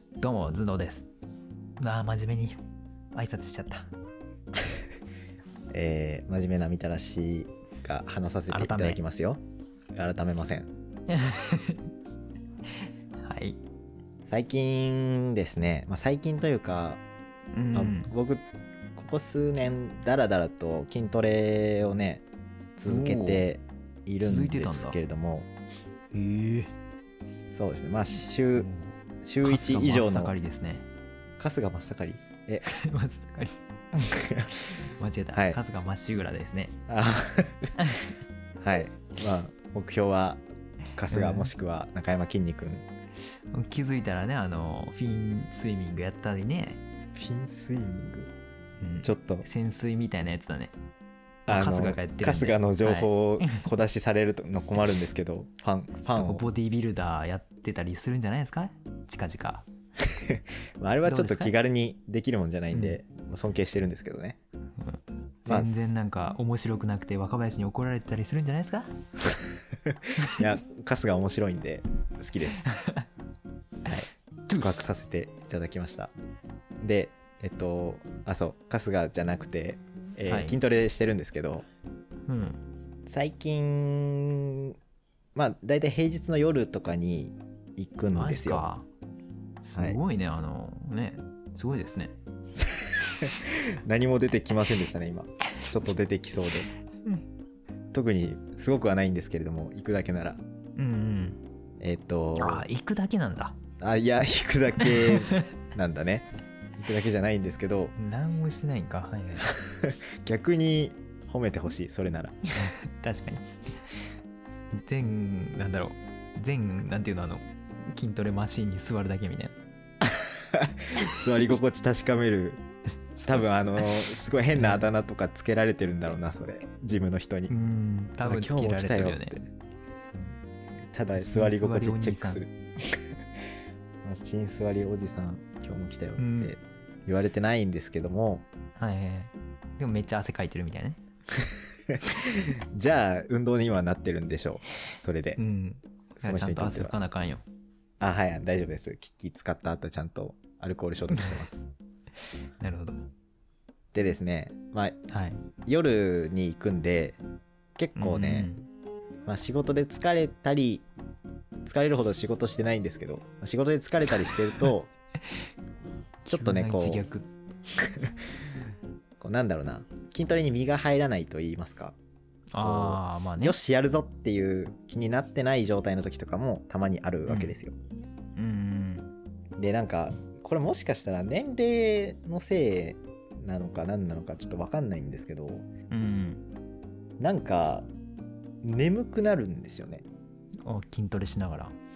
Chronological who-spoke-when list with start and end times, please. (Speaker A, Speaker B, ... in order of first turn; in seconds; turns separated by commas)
Speaker A: 0.2-1.1, Speaker A: 1.8-2.6, Speaker A: 3.1-3.9, Speaker B: 5.7-9.4, Speaker A: 8.5-9.0, Speaker B: 10.0-10.7, Speaker A: 11.1-11.8, Speaker A: 13.2-13.6, Speaker B: 14.3-17.0, Speaker A: 17.5-18.1, Speaker B: 17.7-22.2, Speaker B: 22.8-25.5, Speaker A: 22.8-23.4, Speaker A: 24.2-25.0, Speaker A: 26.1-26.7, Speaker B: 27.4-28.7, Speaker A: 28.6-30.9, Speaker B: 29.2-30.4, Speaker B: 31.4-32.7, Speaker A: 32.6-33.6, Speaker B: 34.0-34.6, Speaker A: 35.0-36.8, Speaker B: 35.3-35.6, Speaker B: 36.9-37.7, Speaker A: 37.8-38.1, Speaker B: 38.6-40.4, Speaker B: 41.0-42.9, Speaker A: 41.1-41.5, Speaker A: 43.5-46.8, Speaker B: 47.1-48.3, Speaker A: 48.8-50.7, Speaker B: 49.0-49.5, Speaker B: 51.5-56.4, Speaker A: 51.5-53.5, Speaker A: 56.1-59.7, Speaker B: 60.0-64.4, Speaker A: 61.0-61.5, Speaker A: 62.7-63.0, Speaker A: 64.8-69.0, Speaker B: 65.5-65.8, Speaker B: 69.9-72.7, Speaker A: 70.2-70.5, Speaker A: 72.7-73.1, Speaker B: 73.9-76.1, Speaker A: 74.5-74.8, Speaker B: 76.8-81.7, Speaker A: 80.3-80.6, Speaker A: 82.3-82.6, Speaker B: 83.1-84.8, Speaker B: 85.3-88.7, Speaker A: 88.2-88.9, Speaker A: 89.6-92.2, Speaker B: 92.6-96.7, Speaker B: 97.9-100.4, Speaker A: 100.8-101.4, Speaker B: 101.8-102.7, Speaker A: 102.4-103.6, Speaker B: 103.8-108.0, Speaker A: 104.8-105.5, Speaker A: 108.0-109.5, Speaker B: 109.5-112.4, Speaker A: 112.6-113.5, Speaker A: 114.7-119.5, Speaker B: 120.0-122.6, Speaker A: 123.2-124.9, Speaker B: 123.3-127.5, Speaker A: 127.5-129.4, Speaker B: 128.2-129.5, Speaker B: 130.9-133.0, Speaker A: 131.2-132.4, Speaker B: 134.0-138.5, Speaker A: 136.2-136.6, Speaker A: 138.8-141.0, Speaker B: 141.9-145.4, Speaker A: 145.4-147.4, Speaker B: 146.2-147.0, Speaker B: 148.0-151.7, Speaker A: 151.1-151.4, Speaker A: 152.6-153.0, Speaker B: 153.9-155.0, Speaker A: 155.1-155.4, Speaker B: 155.7-157.2, Speaker B: 157.8-158.5, Speaker A: 158.0-158.7, Speaker B: 159.3-160.9, Speaker B: 161.7-164.9, Speaker A: 166.2-167.3, Speaker B: 166.3-167.1, Speaker B: 169.2-172.0, Speaker A: 172.5-173.6, Speaker B: 172.6-177.8, Speaker A: 177.3-177.5, Speaker A: 178.4-179.1, Speaker B: 179.6-185.7, Speaker A: 185.9-186.4, Speaker B: 187.2-187.9, Speaker B: 188.6-190.1, Speaker A: 190.7-191.8